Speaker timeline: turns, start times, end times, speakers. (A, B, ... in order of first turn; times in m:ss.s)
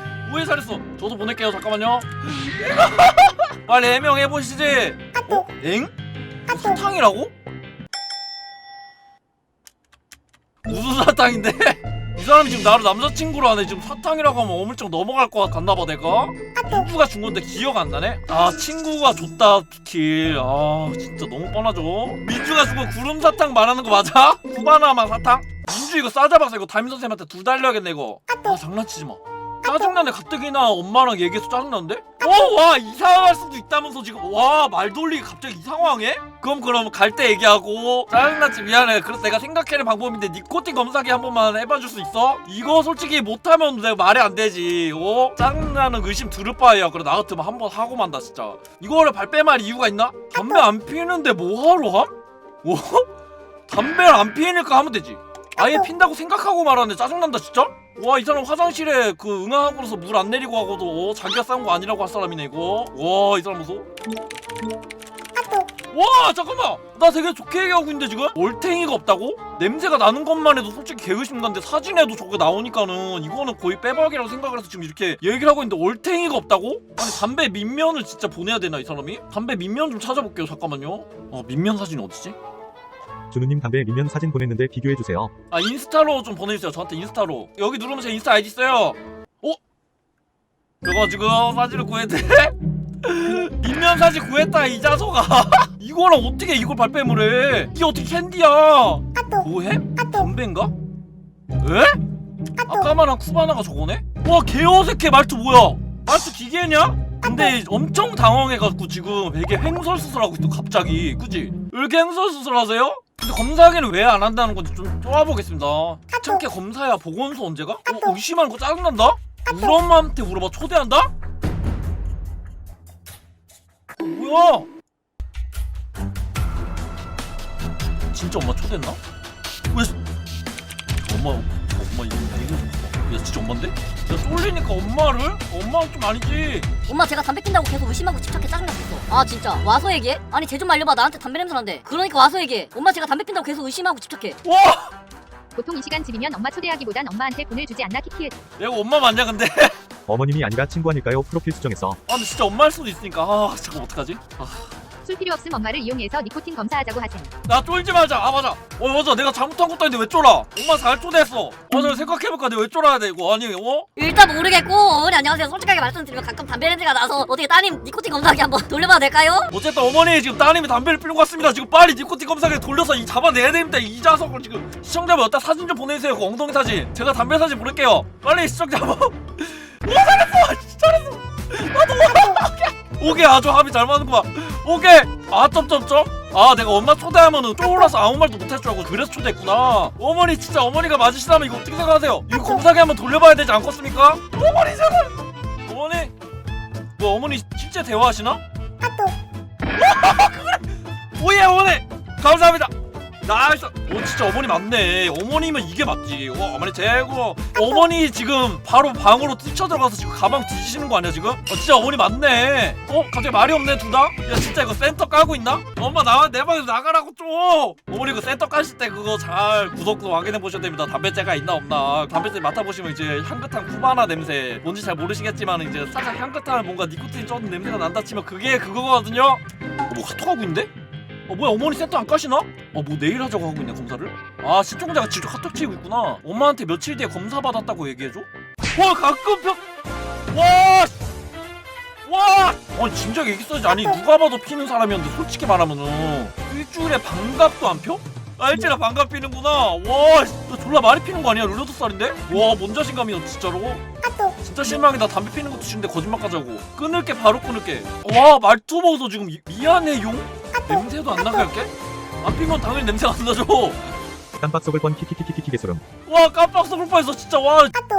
0:00.2-0:05.9 A
0:06.5-0:07.3 A
0:10.6-0:52.1 A
0:52.6-0:53.1 A
0:53.7-1:03.9 A
1:05.9-1:22.4 A
1:23.3-1:25.3 B
1:25.5-1:29.6 A
1:30.8-1:40.7 A
1:41.6-1:42.0 A
1:42.7-2:01.1 A
2:04.0-2:04.7 A
2:08.1-2:09.0 A
2:09.7-2:10.0 A
2:11.0-2:16.7 A
2:16.9-2:24.4 C
2:24.4-2:24.9 A
2:25.6-2:28.4 D
2:28.6-2:29.8 A
2:30.1-2:32.0 B
2:32.1-2:34.7 A
2:35.0-2:37.3 D
2:37.5-2:43.9 A
2:44.0-2:49.5 C
2:49.5-3:16.1 A
3:17.0-3:18.4 A
3:19.8-3:50.7 A
3:51.3-3:59.6 A
4:00.3-4:01.0 A
4:02.0-4:13.8 A
4:14.4-4:23.9 A
4:24.4-4:25.8 B
4:26.1-4:27.8 A